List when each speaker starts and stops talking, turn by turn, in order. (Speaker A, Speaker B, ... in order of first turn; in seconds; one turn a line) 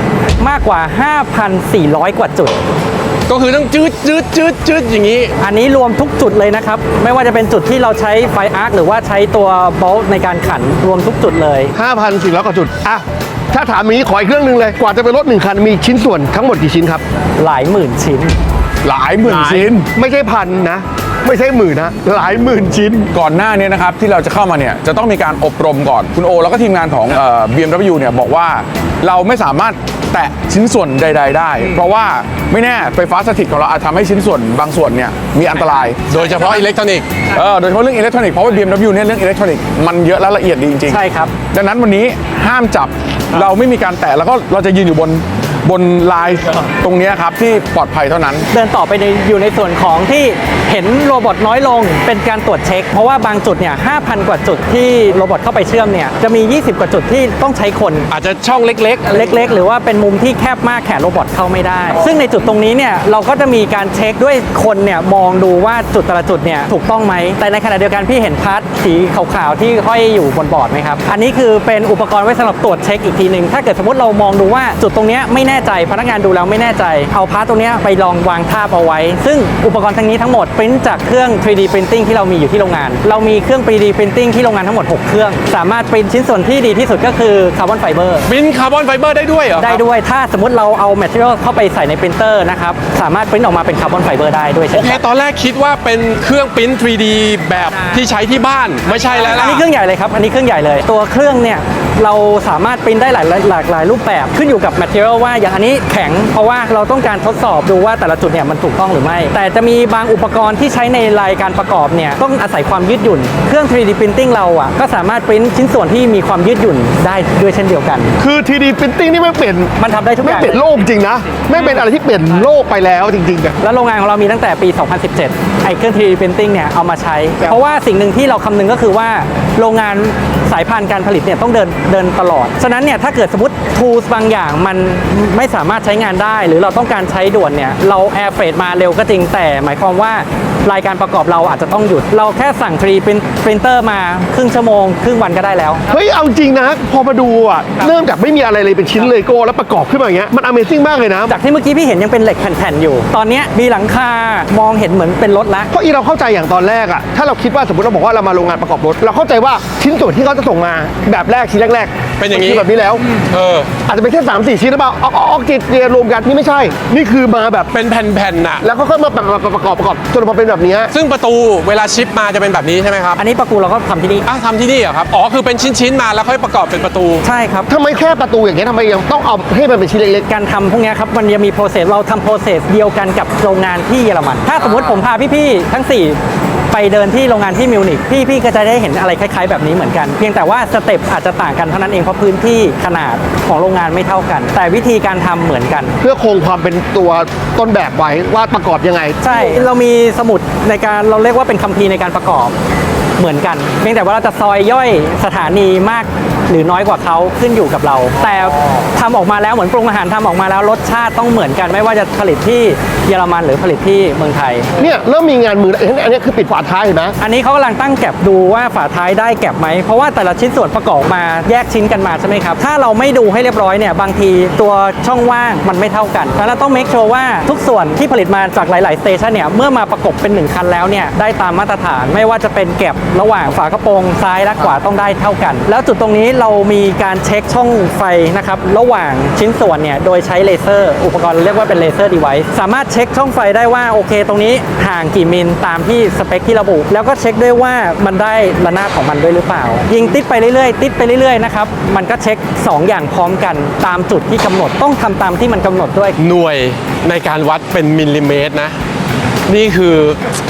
Speaker A: 0.4-2.6
Speaker B: 3.3-5.3
Speaker A: 5.4-11.7
Speaker C: 11.7-17.0
Speaker A: 17.4-18.4
Speaker D: 18.8-19.9
Speaker C: 19.3-23.1
Speaker D: 23.1-36.4
Speaker B: 36.1-37.2
Speaker D: 37.3-41.0
Speaker A: 40.9-41.3
Speaker D: 41.5-48.5
Speaker A: 48.5-58.1
Speaker B: 58.1-59.4
Speaker A: 59.1-88.3
Speaker B: 88.2-89.8
Speaker A: 89.6-95.0
Speaker B: 94.7-99.6
Speaker A: 97.7-98.0
Speaker A: 99.1-118.1
Speaker C: 118.2-119.7
Speaker A: 119.8-120.6
Speaker C: 120.2-123.5
Speaker A: 123.6-145.9
Speaker C: 145.9-151.3
Speaker A: 151.3-155.7
Speaker C: 155.7-163.0
Speaker B: 162.2-162.6
Speaker B: 163.2-163.7
Speaker C: 163.8-167.7
Speaker B: 167.7-168.6
Speaker C: 168.6-170.9
Speaker B: 170.9-173.2
Speaker A: 173.2-174.3
Speaker B: 174.2-177.2
Speaker A: 177.2-177.7
Speaker C: 177.7-180.2
Speaker A: 180.3-186.2
Speaker B: 184.6-185.0
Speaker A: 186.7-195.9
Speaker C: 196.0-199.2
Speaker A: 199.2-202.5
Speaker A: 203.2-214.7
Speaker C: 214.8-217.1
Speaker A: 217.2-256.2
Speaker D: 234.6-234.8
Speaker B: 256.2-258.8
Speaker B: 259.5-260.2